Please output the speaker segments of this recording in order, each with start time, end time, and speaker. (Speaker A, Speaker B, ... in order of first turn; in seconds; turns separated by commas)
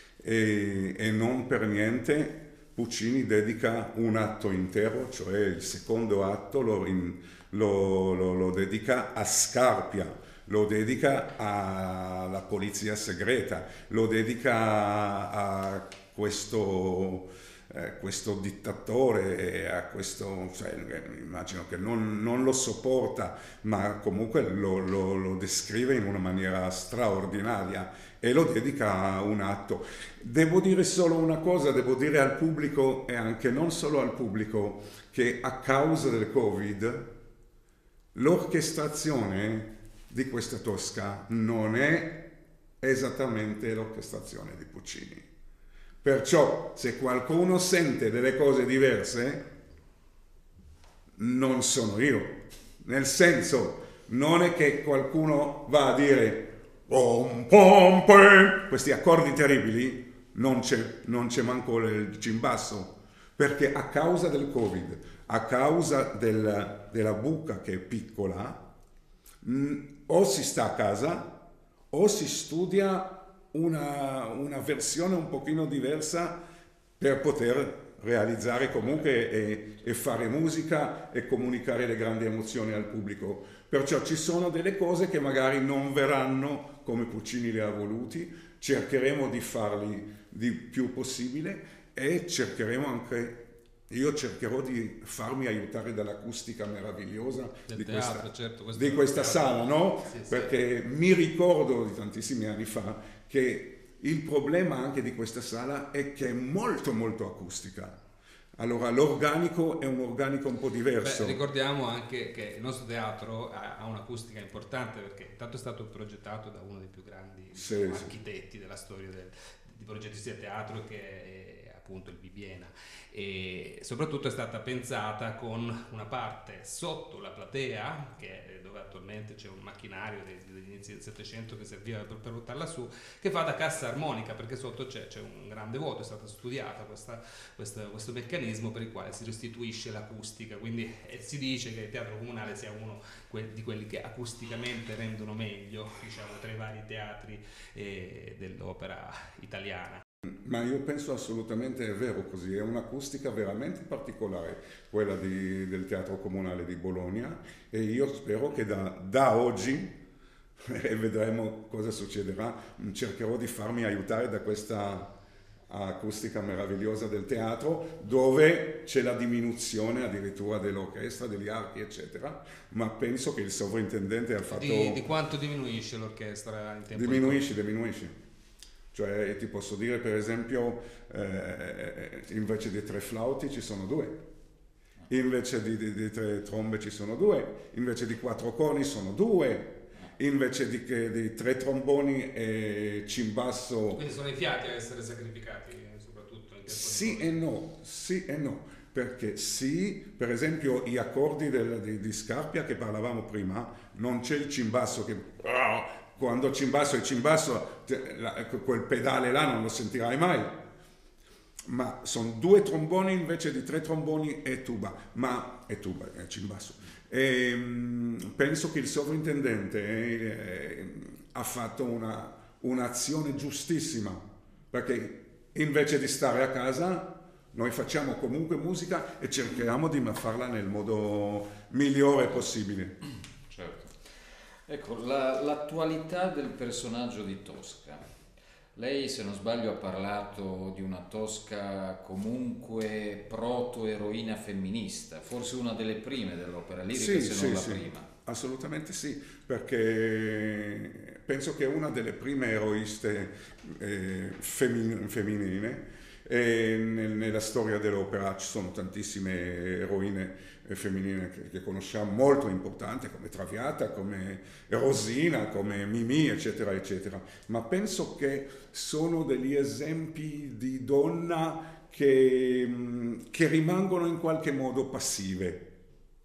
Speaker A: 0.2-37.1, Speaker A: 38.1-42.3, Speaker A: 42.8-45.3, Speaker A: 46.0-49.4, Speaker A: 51.2-68.6, Speaker A: 69.4-71.4, Speaker A: 71.9-76.4, Speaker A: 77.0-108.0, Speaker B: 97.7-100.5, Speaker A: 108.5-111.4, Speaker B: 111.0-150.0, Speaker A: 117.5-118.1, Speaker A: 150.4-159.9, Speaker A: 160.6-165.1, Speaker A: 165.7-175.0, Speaker B: 174.5-177.5, Speaker A: 176.9-178.2, Speaker A: 178.9-184.2, Speaker A: 185.1-194.0, Speaker B: 193.9-197.4, Speaker A: 196.7-210.6, Speaker A: 211.6-233.0, Speaker C: 233.5-238.0, Speaker C: 238.8-248.1, Speaker A: 246.9-275.7